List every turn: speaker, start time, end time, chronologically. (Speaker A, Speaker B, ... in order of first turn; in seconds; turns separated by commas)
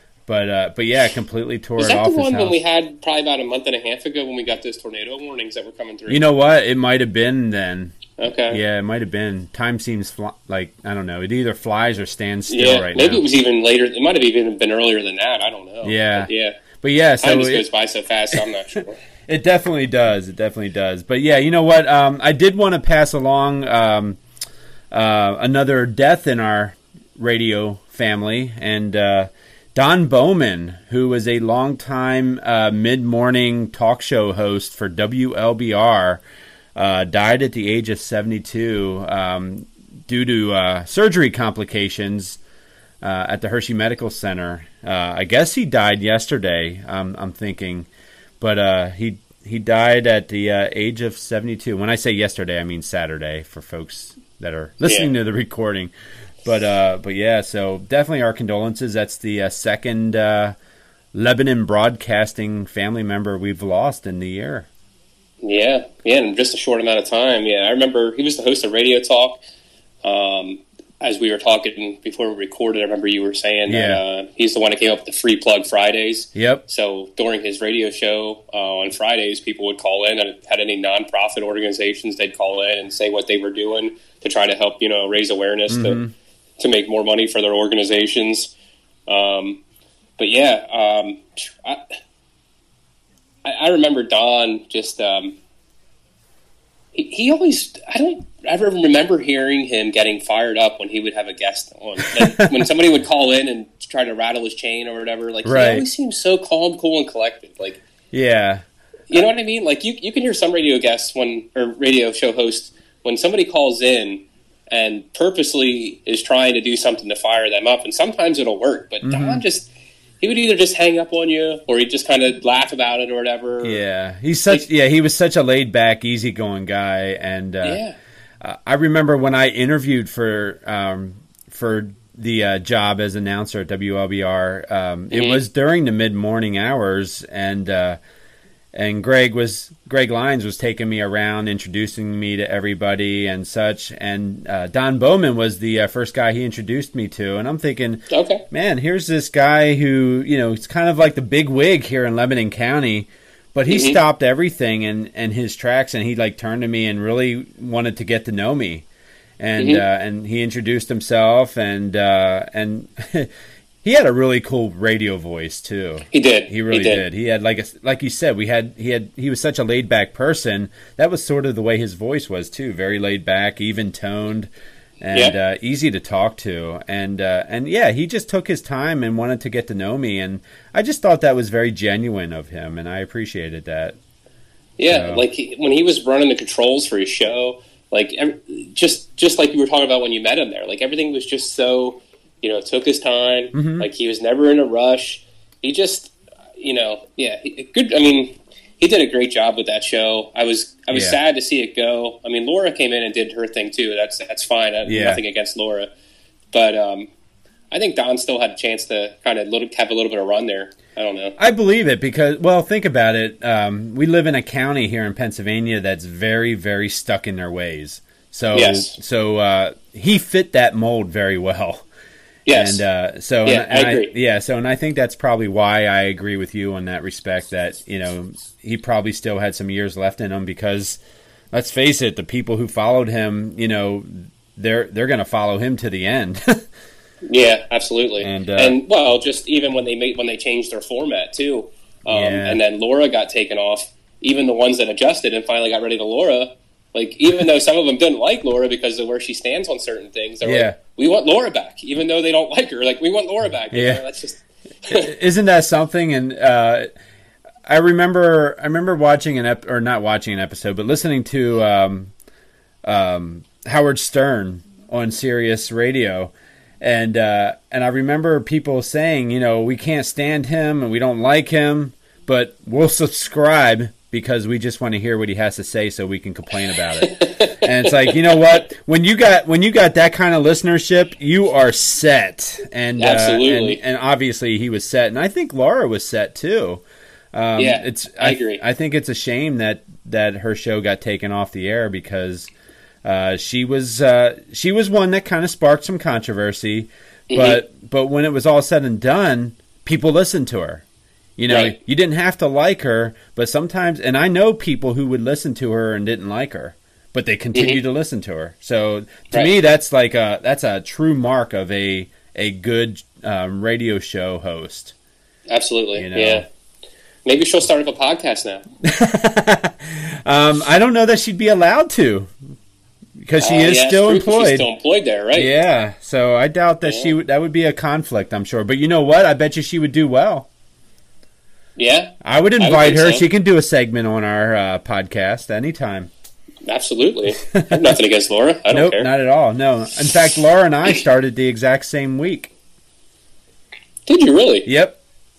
Speaker A: 0.3-2.6, Speaker B: 1.8-6.2, Speaker A: 6.1-13.2, Speaker B: 8.2-8.6, Speaker B: 12.5-16.6, Speaker A: 15.8-17.7, Speaker B: 17.2-19.0, Speaker A: 19.3-24.2, Speaker A: 24.9-36.2, Speaker A: 36.8-42.4, Speaker A: 43.0-47.9, Speaker A: 48.4-60.5, Speaker B: 54.8-55.1, Speaker A: 61.1-64.7, Speaker B: 65.4-69.4, Speaker B: 70.0-86.0, Speaker A: 73.7-74.0, Speaker A: 76.3-76.6, Speaker A: 85.7-86.1, Speaker B: 86.6-88.5, Speaker B: 89.1-89.6, Speaker B: 90.2-91.8, Speaker B: 93.5-95.4, Speaker B: 96.9-107.8, Speaker A: 102.2-102.7, Speaker A: 105.4-105.9, Speaker A: 108.1-109.3, Speaker B: 109.1-123.8, Speaker A: 119.0-119.4, Speaker A: 123.6-127.8, Speaker B: 127.6-128.0, Speaker A: 128.4-138.0, Speaker B: 135.1-135.4, Speaker A: 138.7-158.9, Speaker B: 148.1-148.4, Speaker B: 153.7-154.0, Speaker A: 159.4-163.3, Speaker B: 159.6-159.8, Speaker A: 163.8-174.5, Speaker B: 166.1-167.0, Speaker A: 175.0-184.0, Speaker B: 184.8-205.9, Speaker A: 184.9-185.2, Speaker A: 193.5-193.9, Speaker A: 200.9-201.2, Speaker A: 204.8-205.2, Speaker B: 206.5-207.1, Speaker B: 207.7-211.4, Speaker A: 211.4-221.8, Speaker B: 218.5-219.0, Speaker B: 222.5-222.8, Speaker A: 222.5-231.0, Speaker B: 223.4-224.1, Speaker A: 231.5-236.7, Speaker B: 237.2-255.1, Speaker A: 238.2-238.8, Speaker A: 242.1-242.6, Speaker A: 250.4-250.8, Speaker A: 253.7-254.0, Speaker A: 254.9-256.9, Speaker A: 257.7-262.1, Speaker A: 262.8-286.8, Speaker B: 277.0-278.2, Speaker B: 283.0-283.8, Speaker A: 287.3-292.5, Speaker B: 287.6-288.6, Speaker A: 293.0-300.8, Speaker B: 297.3-297.6, Speaker A: 301.4-314.9, Speaker B: 301.5-301.8, Speaker B: 307.5-307.8, Speaker B: 315.5-316.5, Speaker A: 316.0-316.4, Speaker B: 317.2-318.6, Speaker A: 318.8-322.3, Speaker A: 323.2-324.7, Speaker B: 323.4-325.5, Speaker A: 325.3-330.5, Speaker B: 326.8-327.1, Speaker B: 331.8-333.3, Speaker A: 332.2-336.1, Speaker B: 336.6-339.1, Speaker A: 337.4-338.0, Speaker A: 338.7-342.5, Speaker B: 344.1-344.7, Speaker A: 344.6-345.0